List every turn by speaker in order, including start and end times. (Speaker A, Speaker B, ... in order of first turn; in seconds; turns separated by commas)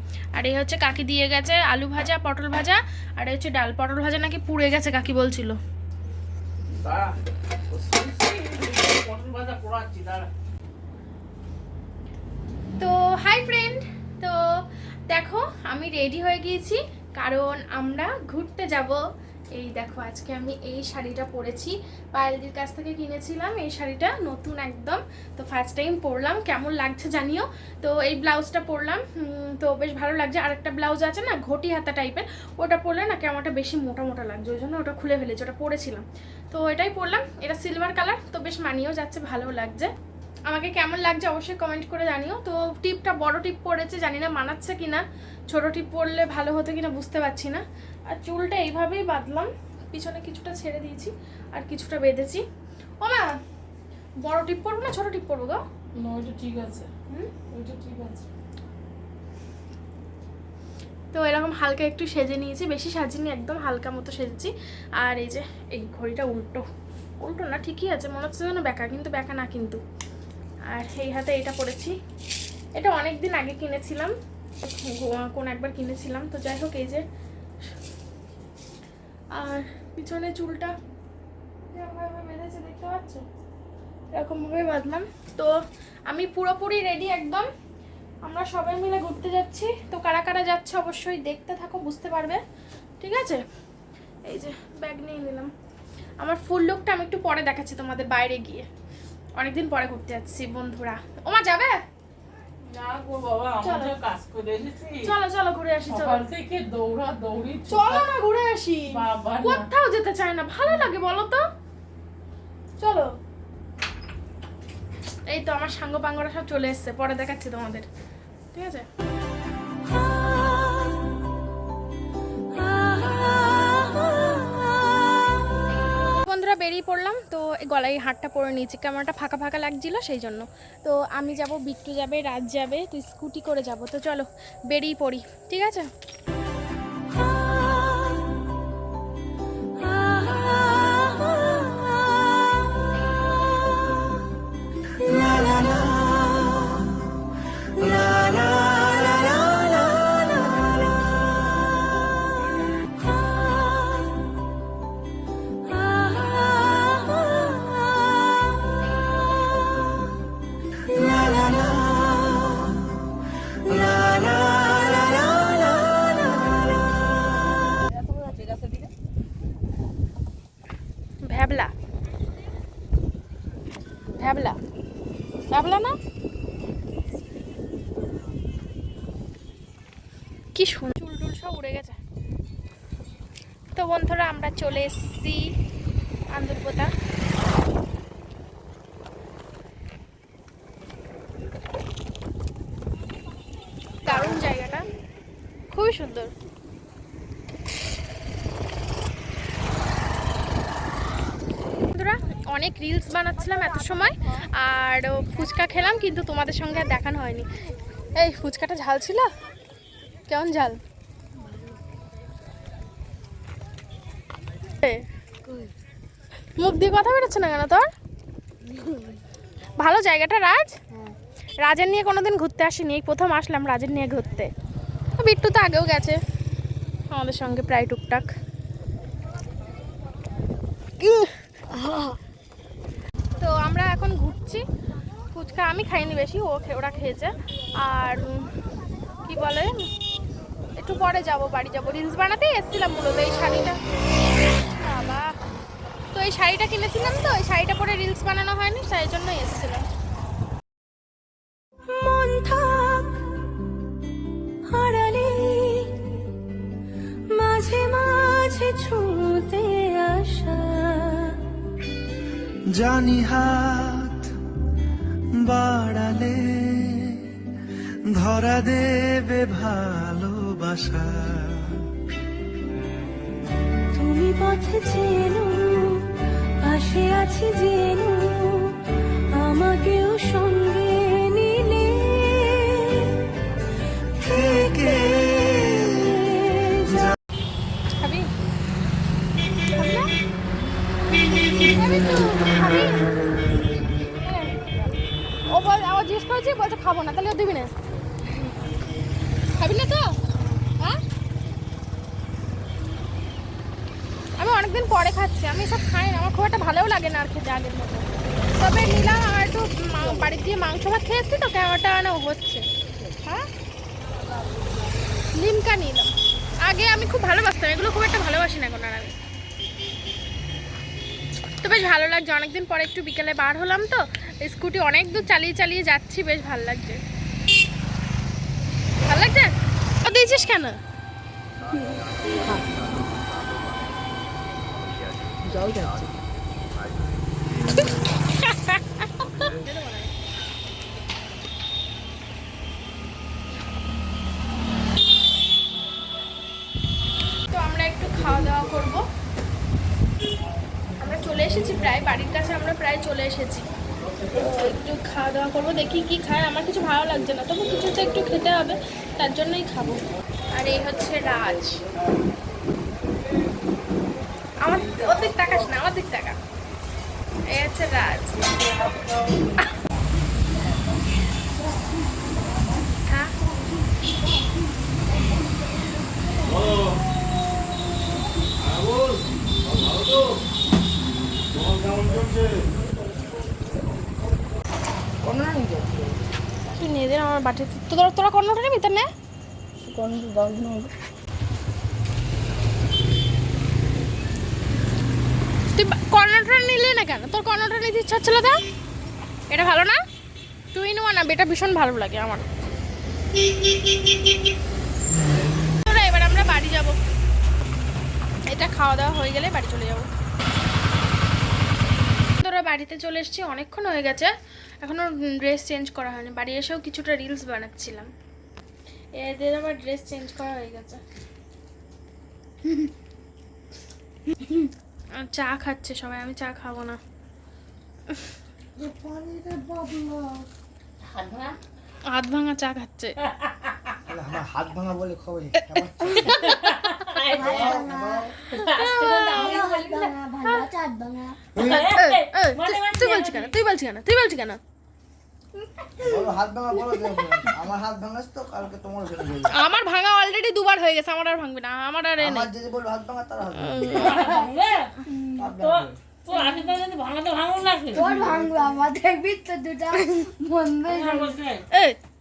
Speaker A: 0.3-5.6, Speaker B: 6.7-7.1, Speaker B: 7.7-10.3, Speaker A: 12.8-14.4, Speaker A: 15.1-19.0, Speaker A: 19.5-39.9, Speaker A: 40.5-52.4, Speaker A: 53.0-53.4, Speaker A: 54.2-55.6, Speaker B: 56.0-56.9, Speaker A: 57.1-57.3, Speaker B: 57.5-58.2, Speaker A: 61.1-66.6, Speaker A: 67.2-69.8, Speaker A: 70.7-71.9, Speaker A: 72.7-77.0, Speaker A: 79.3-80.7, Speaker A: 81.7-83.2, Speaker A: 84.1-85.5, Speaker A: 86.1-87.5, Speaker A: 88.2-92.4, Speaker A: 93.0-93.4, Speaker A: 94.2-95.5, Speaker A: 96.2-98.6, Speaker A: 99.4-101.8, Speaker B: 102.7-105.1, Speaker A: 103.6-103.9, Speaker A: 105.0-106.2, Speaker B: 105.9-108.1, Speaker A: 107.7-111.4, Speaker B: 108.9-109.6, Speaker A: 112.8-113.1, Speaker A: 115.3-117.8, Speaker A: 118.5-118.8, Speaker A: 126.2-135.9, Speaker B: 167.9-168.8, Speaker A: 171.2-171.7, Speaker A: 174.2-174.6, Speaker A: 175.5-175.9, Speaker A: 180.5-182.0, Speaker A: 183.7-185.5, Speaker A: 186.3-186.9, Speaker A: 194.0-194.8, Speaker A: 195.7-196.3, Speaker A: 201.9-207.5, Speaker A: 208.2-209.3, Speaker A: 210.3-210.8, Speaker A: 216.6-217.9, Speaker A: 219.8-220.8, Speaker A: 221.6-224.5, Speaker A: 225.2-226.2, Speaker A: 227.1-228.3, Speaker A: 231.0-231.3, Speaker C: 231.8-232.1, Speaker A: 233.4-234.6, Speaker A: 235.3-238.5, Speaker A: 239.2-239.7, Speaker A: 240.8-243.8, Speaker A: 244.6-245.3, Speaker A: 246.1-249.8, Speaker D: 251.9-253.1, Speaker D: 254.7-255.9, Speaker D: 257.4-261.3, Speaker E: 262.7-264.3, Speaker E: 265.4-267.1, Speaker E: 268.1-271.6, Speaker D: 273.9-276.0, Speaker D: 276.6-278.7, Speaker D: 279.4-282.7, Speaker A: 288.0-288.3, Speaker A: 289.7-290.1, Speaker A: 291.6-293.0, Speaker A: 294.2-294.9, Speaker A: 295.5-297.7, Speaker A: 299.6-301.0, Speaker A: 304.4-312.6, Speaker A: 315.3-319.1, Speaker A: 321.6-327.0, Speaker A: 329.1-330.8, Speaker E: 333.0-333.7, Speaker B: 335.4-336.1, Speaker A: 337.7-340.1, Speaker A: 347.5-349.0, Speaker A: 351.0-353.6, Speaker A: 354.3-360.0, Speaker A: 360.5-361.8, Speaker A: 364.6-366.4, Speaker A: 367.5-368.5, Speaker A: 373.0-373.3, Speaker B: 385.2-385.8, Speaker A: 386.7-389.1, Speaker C: 389.9-390.9, Speaker A: 395.7-398.6, Speaker A: 399.5-400.0, Speaker A: 400.7-402.5, Speaker A: 405.8-406.9, Speaker A: 408.5-410.1, Speaker A: 412.4-418.1, Speaker A: 419.2-421.0, Speaker A: 425.2-427.0, Speaker C: 428.8-430.4, Speaker C: 431.2-431.5, Speaker A: 432.0-433.1, Speaker F: 434.1-436.4, Speaker A: 436.1-436.6, Speaker G: 436.4-437.9, Speaker C: 437.3-441.4, Speaker F: 437.3-438.3, Speaker G: 438.5-440.1, Speaker F: 441.5-441.9, Speaker A: 441.6-444.6, Speaker G: 441.6-443.5, Speaker F: 446.0-449.5, Speaker A: 449.5-452.5, Speaker F: 452.2-454.3, Speaker A: 453.6-454.5, Speaker G: 454.0-454.9, Speaker C: 455.1-455.5, Speaker F: 455.4-456.0, Speaker G: 455.6-458.3, Speaker C: 456.3-456.7, Speaker C: 457.9-461.4, Speaker F: 458.0-458.4, Speaker A: 459.9-460.3, Speaker G: 460.9-461.4, Speaker A: 461.7-462.0